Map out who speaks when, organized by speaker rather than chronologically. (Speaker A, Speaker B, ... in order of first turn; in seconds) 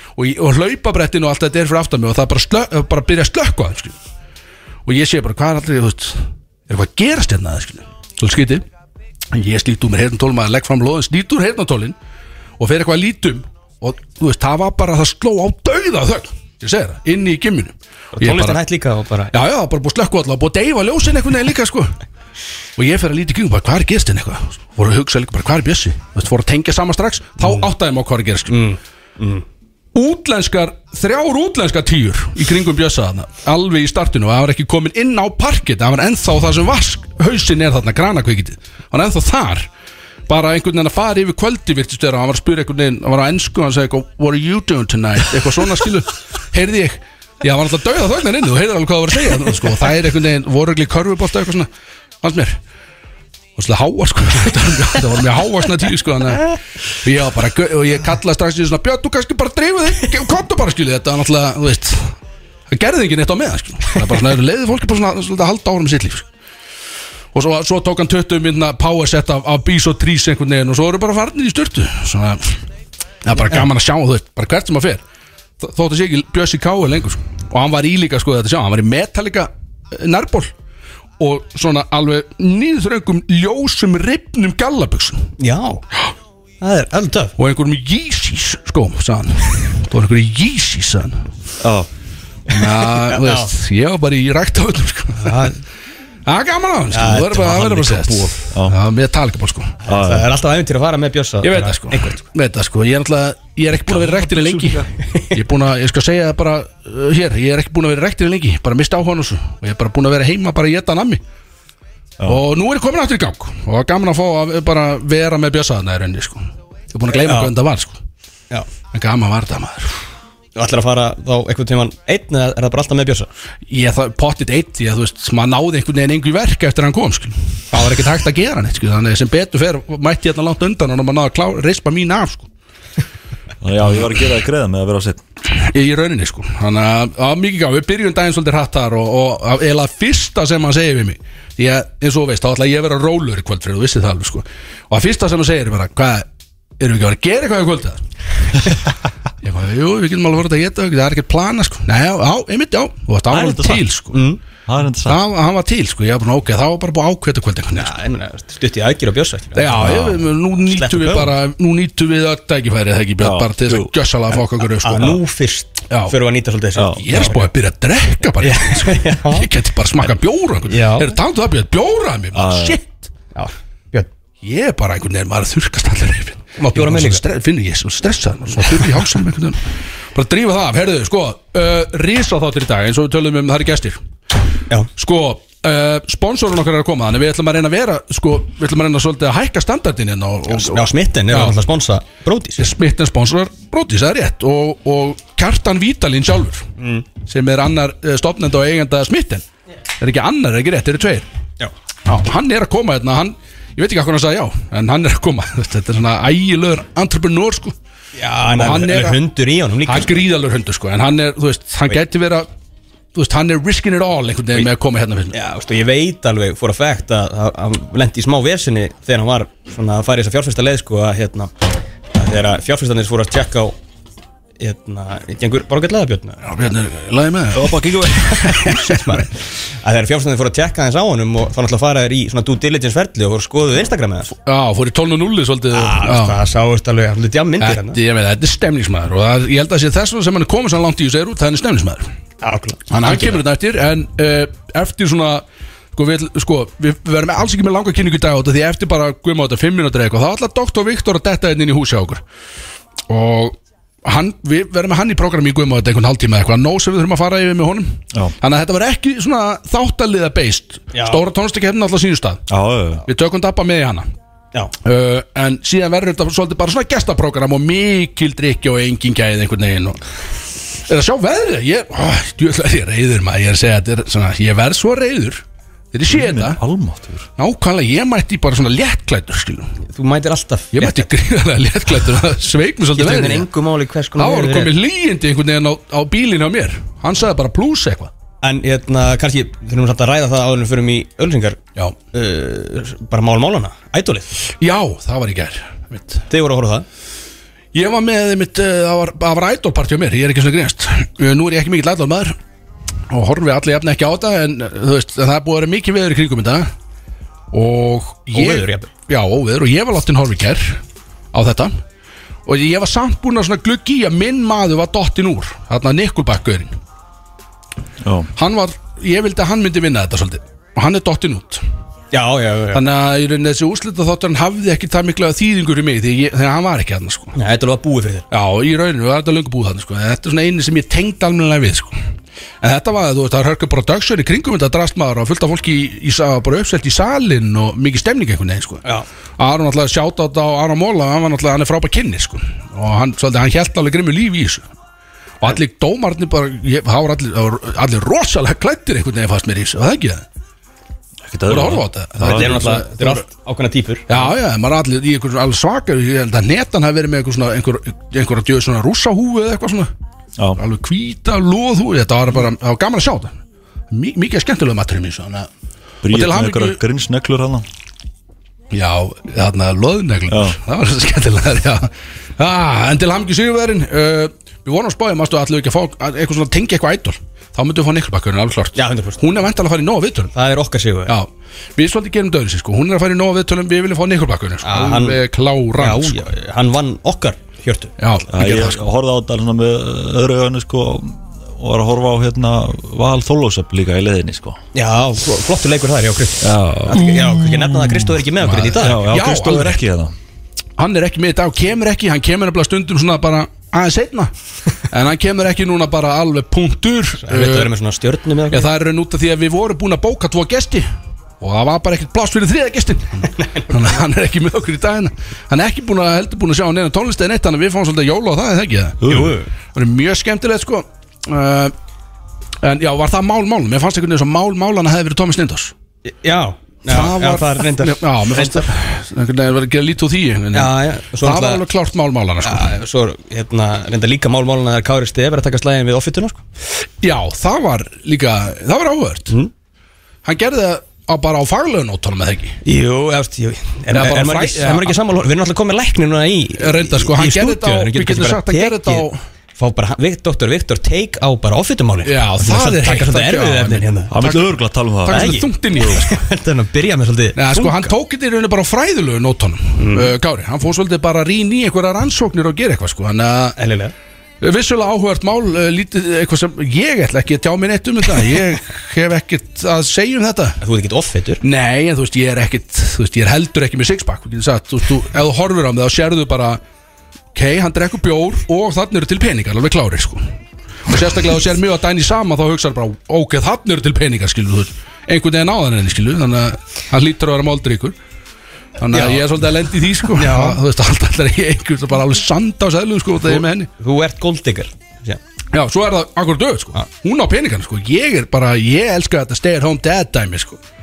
Speaker A: 0.2-4.0, 4.9-8.7, 9.3-12.0, 12.6-18.6, 19.3-22.0, 22.8-28.6, 29.9-39.7, 40.3-51.7, 52.2-52.6, 53.6-62.1, 62.7-66.3, 67.3-72.6, 73.2-75.0, 75.6-80.5, 81.2-85.3, 87.4-91.3, 92.5-95.5, 96.3-99.7, 101.4-111.2, 112.2-118.0, 118.9-119.9, 123.7-132.5, 135.5-146.3, 146.8-148.8, 149.4-154.3, 155.1-157.9, 159.6-165.2, 165.9-166.2, 167.0-173.0, 174.4-184.0, 185.0-191.6, 192.6-196.7, 197.2-199.4, 200.0-201.3, 202.1-207.8, 208.5-209.2, 209.9-212.5, 213.2-215.3, 226.4-229.3, 234.3-236.4, 237.6-242.1, 242.9-252.2, 253.1-262.4, 263.1-264.1, 264.9-270.0, 270.9-276.6, 277.4-279.7, 280.7-283.5, 284.2-288.1, 294.6-296.2, 297.7-302.4, 303.1-306.7, 307.5-310.8, 311.3-311.8, 312.5-316.7, 318.4-321.6, 322.7-327.4, 328.3-332.0, 332.6-338.8, 339.4-344.6, 345.4-350.2, 351.5-353.2, 354.1-359.9, 360.6-363.3, 363.9-365.5, 366.1-366.8, 368.7-380.3, 381.1-386.3, 388.0-388.3, 396.9-397.7, 398.6-399.8, 400.8-407.7, 408.5-419.0, 419.7-421.7, 422.6-425.7, 426.9-432.7, 437.0-439.4, 440.2-442.6, 443.9-444.9, 446.6-449.2, 452.1-454.5, 455.1-456.2, 457.4-463.6, 464.4-470.6, 471.4-476.6, 477.3-480.3, 480.9-488.0, 488.8-493.7, 495.5-500.6
Speaker B: 18.2-19.3, 27.4-27.7, 28.5-29.4, 73.3-73.7, 85.4-85.8, 86.6-87.3, 93.0-93.5, 95.2-95.6, 96.9-98.2, 99.8-102.2, 105.0-105.3, 117.1-117.5, 120.6-123.3, 154.1-154.4, 157.7-160.0, 160.7-161.3, 164.8-167.5, 168.4-169.5, 170.7-171.2, 173.3-174.1, 176.6-177.2, 190.5-192.7, 196.8-197.1, 208.2-210.2, 215.3-223.8, 224.6-226.5, 228.3-234.3, 235.7-238.0, 242.4-243.4, 260.9-261.2, 279.9-281.1, 282.9-284.7, 288.4-291.6, 292.1-294.3, 296.3-296.9, 308.3-308.9, 322.1-322.8, 327.3-328.2, 352.2-354.3, 378.8-379.2, 380.4-381.2, 384.6-385.2, 385.8-388.8, 394.7-399.1, 407.2-408.7, 419.1-419.5, 426.1-428.7, 430.5-431.6, 432.4-436.4, 442.6-454.1, 455.1-457.9, 459.8-460.1, 463.6-463.9, 470.6-471.4, 488.9-489.2, 490.0-490.6, 493.2-495.2
Speaker C: 91.6-91.9, 98.1-98.8, 99.9-100.3, 103.9-104.8, 133.6-135.2, 153.3-153.8, 154.7-155.2, 159.8-160.3, 163.2-163.9, 166.8-167.0, 172.3-172.8, 227.5-228.4, 262.5-263.0, 276.1-277.3, 318.0-318.3, 351.3-352.7, 366.0-367.6, 370.3-370.6, 388.3-394.6, 396.4-397.3, 397.8-400.1, 419.0-419.4, 454.1-455.4